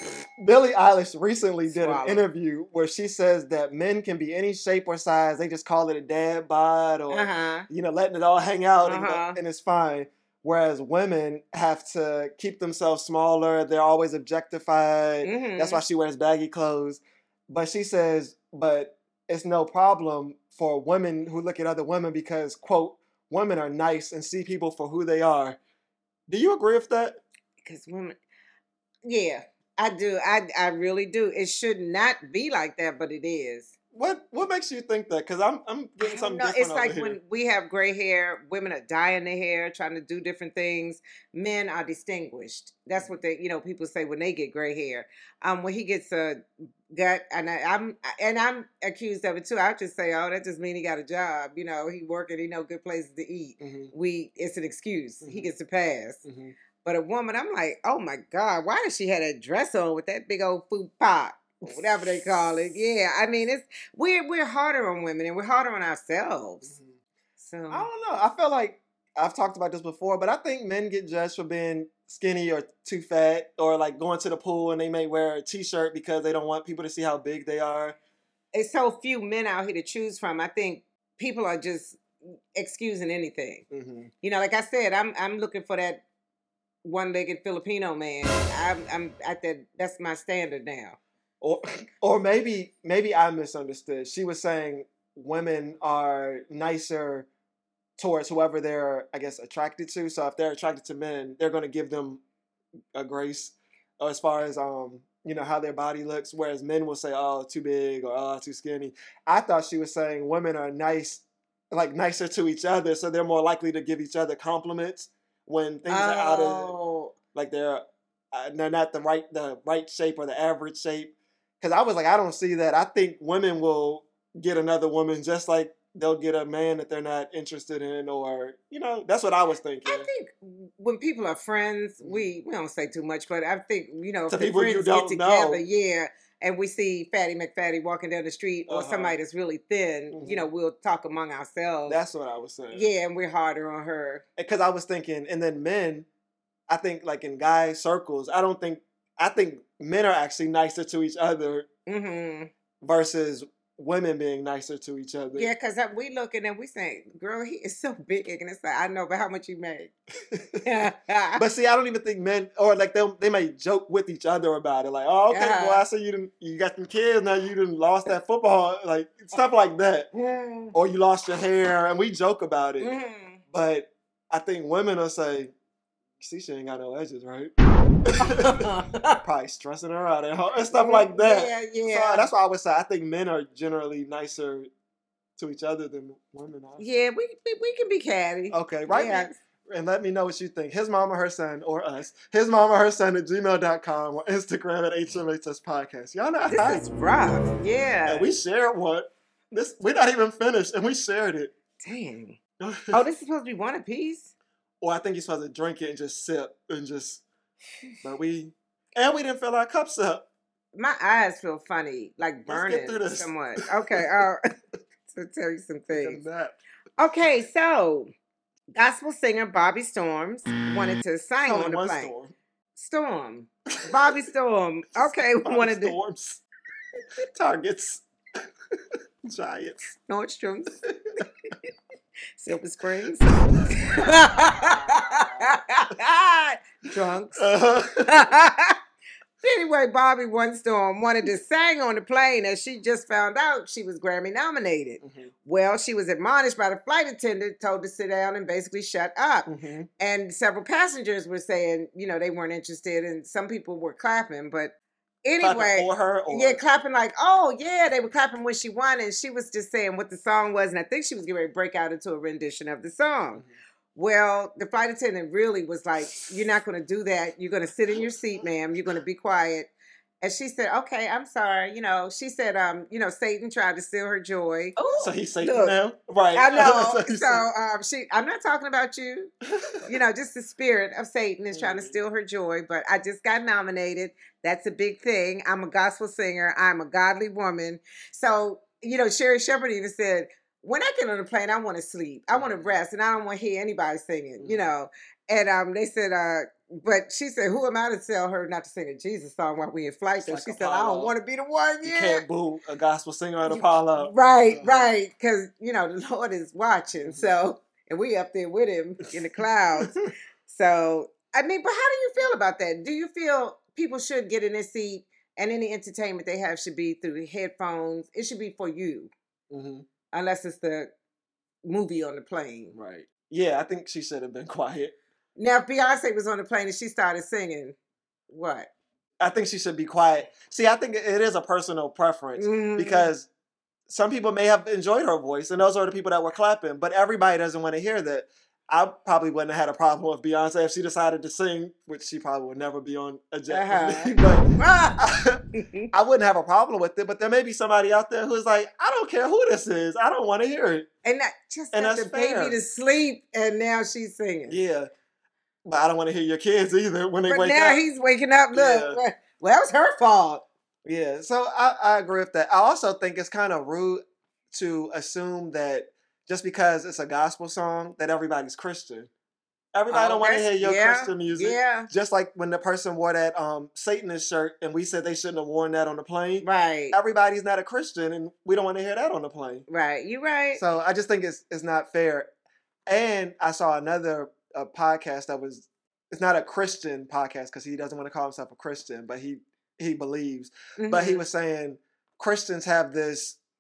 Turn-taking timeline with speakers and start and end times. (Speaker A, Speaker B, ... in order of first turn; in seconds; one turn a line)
Speaker A: 0.4-25.6
Speaker B: 1.7-2.2
Speaker B: 7.1-7.7
Speaker B: 8.8-9.4
Speaker B: 15.2-15.8
Speaker A: 26.3-27.2
Speaker B: 27.6-28.2
Speaker B: 29.1-33.7
Speaker A: 33.9-37.2
Speaker B: 36.0-56.2
Speaker A: 53.6-53.9
Speaker A: 55.2-55.5
Speaker A: 56.2-56.5
Speaker B: 56.8-66.8
Speaker A: 61.6-62.4
Speaker B: 67.4-67.9
Speaker A: 67.7-78.0
Speaker B: 78.5-83.7
Speaker A: 83.7-84.1
Speaker B: 84.2-86.0
Speaker B: 86.8-91.0
Speaker A: 91.4-97.3
Speaker A: 98.0-102.2
Speaker A: 102.9-116.7
Speaker B: 115.9-117.2
Speaker A: 117.3-130.1
Speaker B: 129.8-142.0
Speaker A: 132.0-132.3
Speaker A: 134.3-135.6
Speaker A: 138.7-139.2
Speaker A: 140.1-140.5
Speaker A: 141.9-142.9
Speaker B: 142.7-144.2
Speaker A: 144.4-146.1
Speaker A: 146.7-151.7
Speaker B: 151.9-152.5
Speaker A: 152.8-155.5
Speaker B: 155.3-159.9
Speaker A: 160.3-160.6
Speaker B: 160.6-161.4
Speaker A: 161.4-170.1
Speaker B: 165.3-165.8
Speaker B: 170.1-170.7
Speaker A: 170.7-172.9
Speaker B: 172.8-173.4
Speaker A: 173.5-175.5
Speaker A: 176.2-177.5
Speaker A: 178.1-178.7
Speaker B: 178.2-179.2
Speaker A: 179.2-184.7
Speaker B: 180.7-182.3
Speaker A: 185.4-186.8
Speaker B: 186.8-189.4
Speaker A: 188.5-196.8
Speaker B: 196.5-198.3
Speaker A: 198.1-201.5
Speaker B: 201.8-202.4
Speaker A: 202.6-203.0
Speaker B: 202.9-204.3
Speaker A: 204.8-207.2
Speaker A: 208.0-210.3
Speaker B: 210.8-214.4
Speaker A: 212.5-213.3
Speaker B: 215.1-216.2
Speaker A: 215.9-216.6
Speaker B: 217.0-218.1
Speaker B: 218.8-222.1
Speaker A: 221.4-222.3
Speaker B: 222.8-226.0
Speaker A: 223.8-224.1
Speaker A: 225.0-226.4
Speaker A: 227.2-228.1
Speaker A: 229.2-229.9
Speaker B: 230.1-231.5
Speaker A: 230.8-231.2
Speaker B: 232.4-237.5
Speaker A: 237.4-238.3
Speaker B: 238.0-238.8
Speaker B: 239.4-254.7
Speaker A: 245.0-245.3
Speaker A: 249.5-249.9
Speaker B: 255.2-269.7
Speaker A: 255.4-256.6
Speaker B: 270.2-275.8
Speaker A: 275.0-277.5
Speaker B: 276.4-302.2
Speaker A: 281.5-282.0
Speaker A: 292.3-292.8
Speaker A: 294.4-294.7
Speaker A: 300.2-301.1
Speaker A: 301.9-304.9
Speaker B: 303.5-309.9
Speaker A: 307.1-307.3
Speaker A: 309.8-310.1
Speaker B: 310.5-319.1
Speaker A: 319.5-319.9
Speaker B: 320.1-320.9
Speaker B: 321.7-322.8
Speaker A: 322.7-325.0
Speaker B: 325.4-327.8
Speaker B: 328.3-328.7
Speaker A: 329.2-333.3
Speaker B: 332.4-333.1
Speaker A: 333.9-345.4
Speaker B: 343.5-345.0
Speaker B: 345.5-345.9
Speaker A: 345.9-350.9
Speaker B: 351.0-354.6
Speaker A: 351.7-352.6
Speaker A: 354.5-354.9
Speaker A: 355.7-357.8
Speaker B: 357.3-360.4
Speaker A: 358.5-359.0
Speaker A: 360.9-369.1
Speaker A: 369.7-379.6
Speaker B: 369.9-371.9
Speaker B: 376.4-377.0
Speaker B: 379.7-380.6
Speaker A: 380.6-382.3
Speaker A: 382.9-393.4
Speaker B: 390.8-391.2